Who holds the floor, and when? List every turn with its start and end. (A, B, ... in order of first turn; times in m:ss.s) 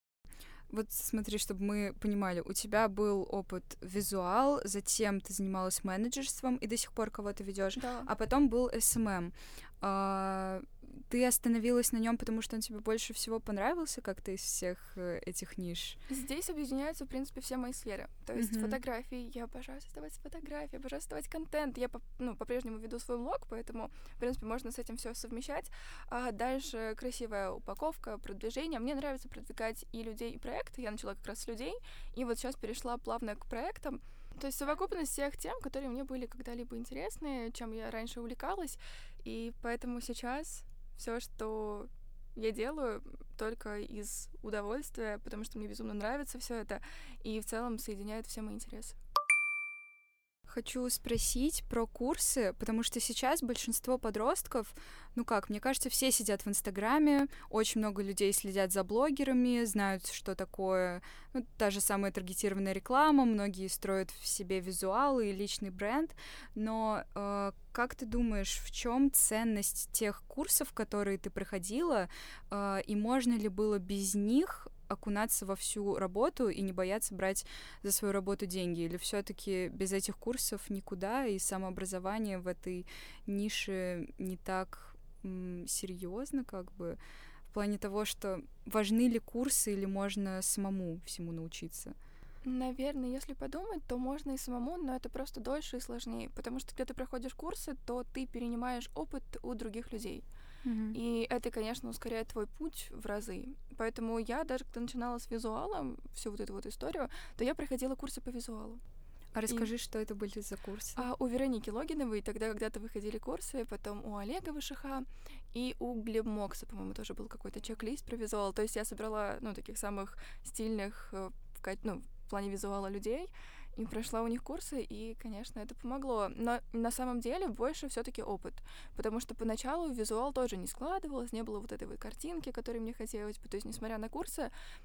0:00.7-0:16.0 A
0:07.8-0:08.1 B
0:16.1-0:49.0 B
0:18.4-0:18.8 A
0:50.5-1:27.0 A
1:27.5-1:32.0 A
1:32.4-1:40.2 B
1:40.6-1:41.0 A
1:40.9-1:48.8 B
1:49.3-1:51.1 A
1:51.0-2:14.5 B